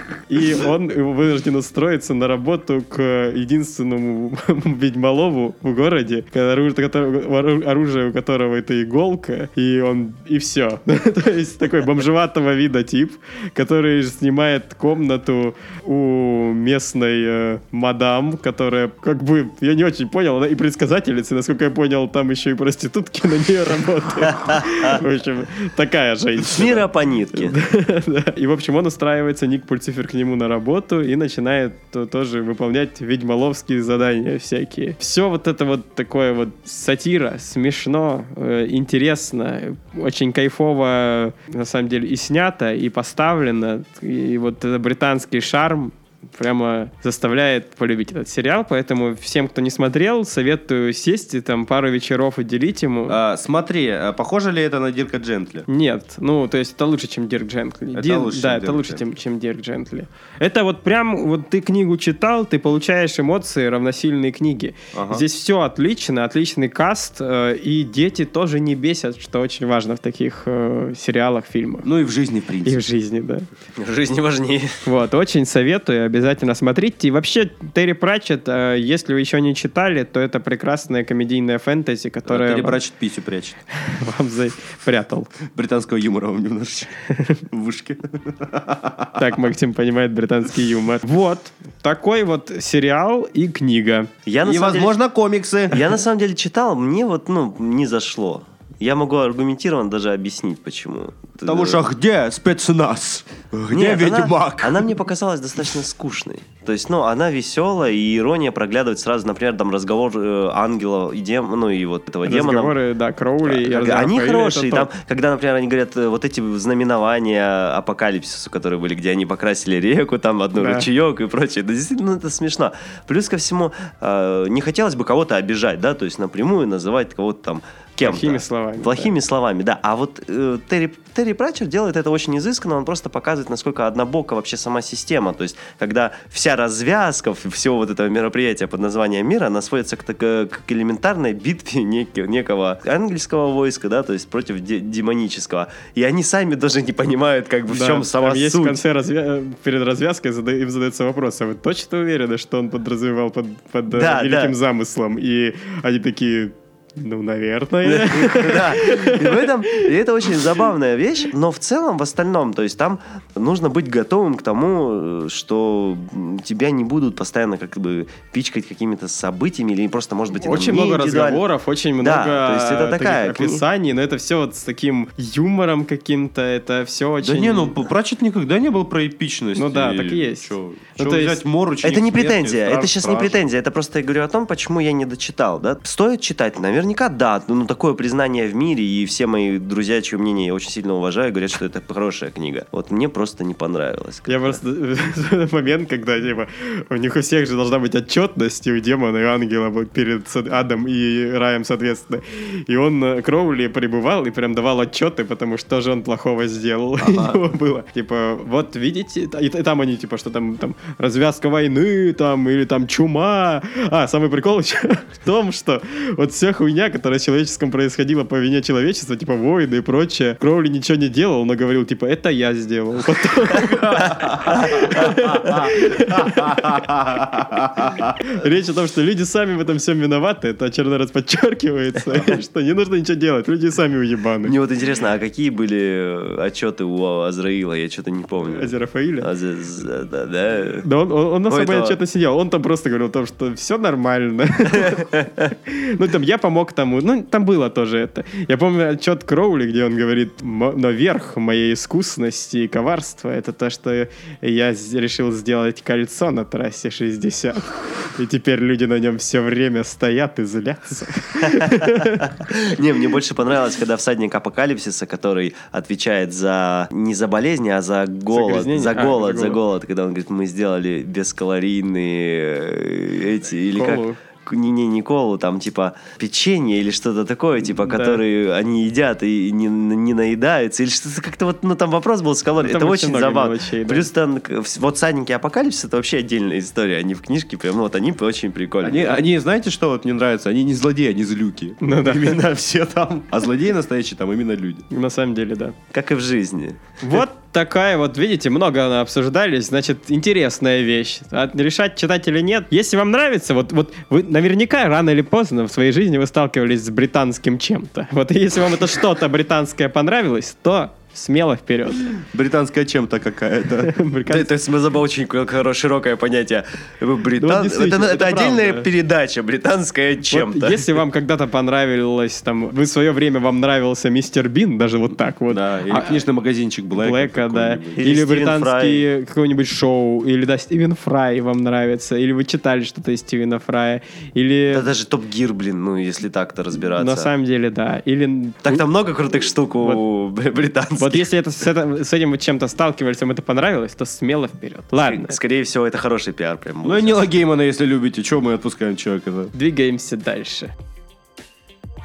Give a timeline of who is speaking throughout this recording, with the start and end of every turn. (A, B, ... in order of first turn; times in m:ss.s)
0:00.3-0:53.2 A
0:24.6-0:24.9 B
0:26.4-0:27.6 B
0:53.1-0:55.7 C
0:55.7-1:11.9 A
0:57.9-0:59.0 C
1:04.9-1:05.2 C
1:11.8-1:12.8 C
1:12.6-1:13.5 A
1:13.8-1:14.8 B
1:14.8-1:22.8 A
1:22.3-1:23.6 C
1:23.8-1:25.3 A
1:25.5-1:26.9 C
1:27.5-1:29.2 C
1:29.2-1:34.1 A
1:34.3-1:35.0 B
1:34.4-1:36.0 C
1:35.7-1:41.8 B
1:41.4-1:44.9 C
1:43.7-1:52.7 B
1:52.2-1:54.9 A
1:53.4-2:28.8 B
2:00.6-2:00.9 A
2:08.0-2:09.1 A
2:27.7-2:39.9 A
2:33.9-2:34.6 B
2:37.8-2:51.4 B
2:50.4-2:57.8 A
2:52.0-2:53.6 B
2:57.2-3:03.4 C
2:59.6-3:01.4 A
3:01.8-3:14.6 B
3:14.3-3:46.9 A
3:27.0-3:27.4 C
3:44.1-3:44.4 C
3:45.3-3:48.1 C
3:48.2-3:54.6 A
3:54.5-4:00.9 B
3:58.5-3:59.3 A
4:00.8-4:22.3 A
4:01.5-4:02.0 B
4:21.4-4:49.2 B
4:28.3-4:29.6 A
4:33.7-4:34.2 A
4:37.9-4:38.2 A
4:42.6-4:44.1 A
4:48.8-4:54.8 C
4:51.8-4:52.4 A
4:54.9-4:55.8 A
4:55.9-4:56.8 B
4:57.0-5:12.2 A
5:12.2-5:13.9 C
5:13.8-5:14.5 A
5:14.3-5:21.0 B
5:17.4-5:18.9 A
5:20.3-5:26.2 A
5:25.5-5:28.1 C
5:27.0-5:34.9 A
5:27.9-5:29.1 B
5:34.7-5:37.3 B
5:37.0-5:38.8 A
5:38.6-5:41.3 B
5:41.0-5:45.4 A
5:45.1-5:47.2 B
5:46.8-5:49.5 C
5:49.5-5:50.7 A